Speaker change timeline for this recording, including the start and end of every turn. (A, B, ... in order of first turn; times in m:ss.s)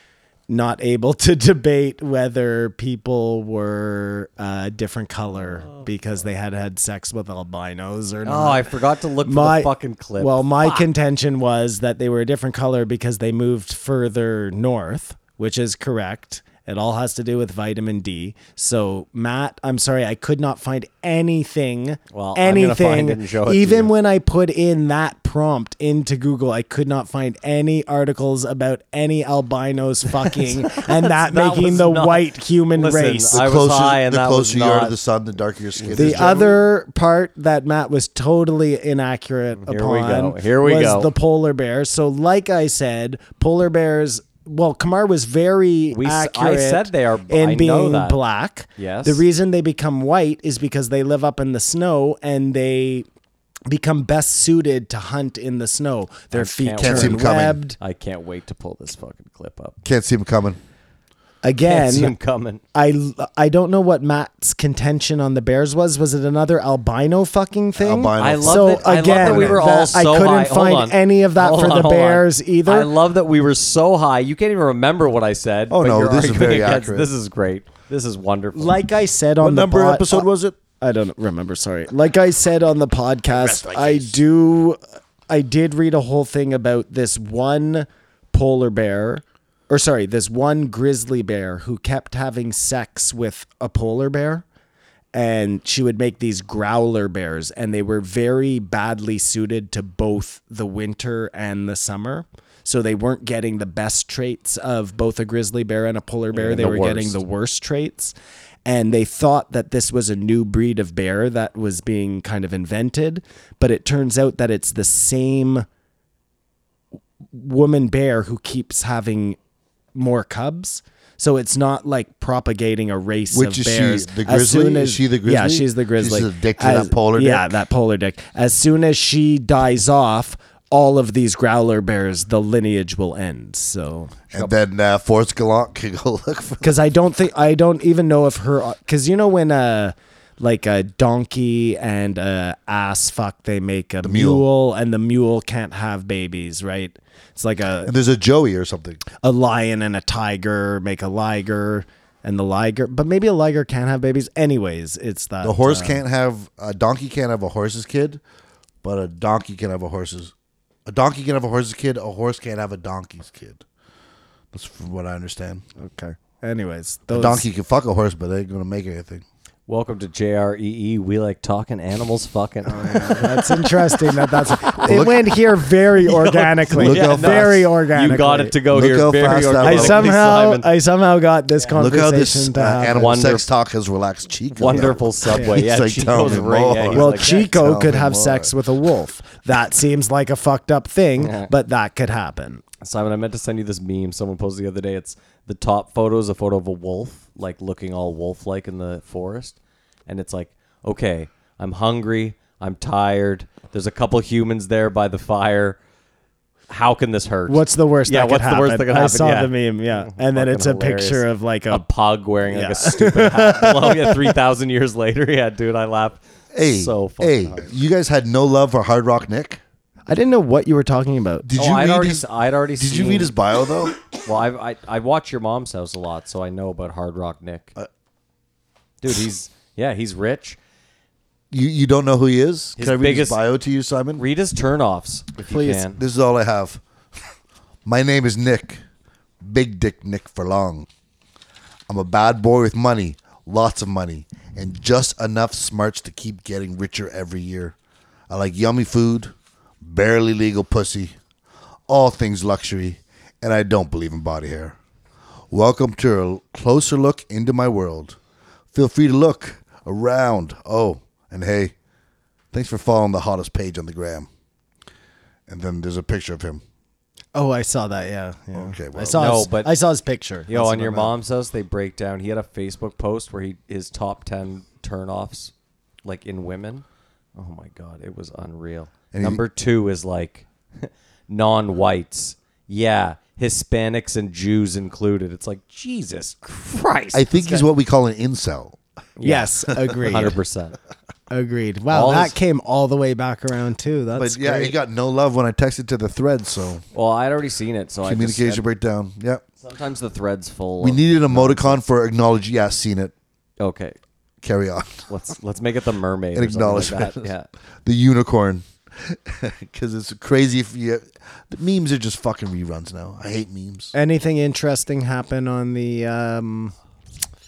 0:00.5-0:33.4 A
0:05.4-0:05.9 B
0:08.2-0:10.8 B
0:22.1-0:23.9 B
0:30.2-0:35.0 B
0:33.3-0:36.6 C
0:35.8-0:36.4 B
0:35.9-0:53.1 A
0:39.6-0:41.1 B
0:45.9-0:48.2 B
0:48.8-0:49.2 B
0:53.7-0:57.8 A
0:56.3-0:59.8 B
0:56.8-0:57.6 C
0:59.8-1:00.6 C
1:01.4-1:02.1 A
1:01.6-1:02.6 B
1:02.7-1:12.9 A
1:07.8-1:09.7 C
1:08.2-1:18.8 B
1:15.7-1:17.1 C
1:18.5-1:20.2 A
1:19.4-1:20.6 C
1:20.8-1:34.4 A
1:23.3-1:24.2 C
1:35.1-1:48.1 A
1:46.3-1:47.2 B
1:48.6-1:55.6 A
1:57.3-1:59.4 A
1:59.9-2:14.5 A
2:03.3-2:07.6 C
2:14.3-2:16.8 C
2:16.6-2:27.9 A
2:24.0-2:24.5 C
2:27.8-2:29.0 C
2:29.2-2:36.0 A
2:35.4-2:38.2 C
2:38.8-2:40.3 C
2:40.9-2:43.6 C
2:44.5-2:45.6 C
2:45.8-2:47.4 A
2:47.1-2:49.2 C
2:49.7-2:53.7 B
2:52.6-2:58.6 A
2:54.8-2:55.3 C
2:56.0-3:00.7 B
2:56.7-2:57.7 C
2:58.7-3:00.1 C
2:59.6-3:03.2 A
3:01.8-3:08.5 C
3:02.9-3:03.5 B
3:04.6-3:07.5 B
3:06.9-3:12.6 A
3:11.2-3:11.5 B
3:12.8-3:25.8 B
3:26.7-3:37.7 B
3:27.5-3:31.9 A
3:32.5-3:34.4 A
3:36.5-3:39.6 C
3:40.1-3:41.5 A
3:41.4-3:42.2 C
3:41.6-3:43.3 B
3:42.8-3:44.0 C
3:44.1-3:47.8 B
3:49.0-3:50.6 B
3:51.5-3:54.2 C
3:52.8-3:53.4 B
3:54.2-3:56.0 B
3:55.5-3:55.8 A
3:55.9-3:56.8 C
3:57.8-3:58.8 C
3:59.4-4:00.9 C
4:01.9-4:07.8 C
4:08.3-4:11.2 C
4:11.9-4:14.8 C
4:15.5-4:18.2 C
4:18.7-4:21.7 C
4:22.5-4:24.3 C
4:25.5-4:26.6 C
4:27.3-4:31.1 A
4:28.5-4:29.4 C
4:29.1-4:29.7 B
4:30.5-4:35.5 B
4:36.0-4:36.8 B
4:37.4-4:47.7 B
4:39.1-4:39.4 C
4:47.1-4:48.8 C
4:49.2-4:50.8 B
4:49.2-4:50.4 A
4:51.3-4:54.7 A
4:51.9-4:52.4 B
4:54.2-4:56.8 C
4:56.9-4:58.6 B
4:58.0-4:59.4 C
4:59.6-5:01.8 B
5:00.8-5:03.1 C
5:03.6-5:04.0 B
5:04.4-5:05.1 C
5:05.1-5:07.5 B
5:06.3-5:07.3 C
5:07.8-5:13.9 C
5:13.9-5:16.7 A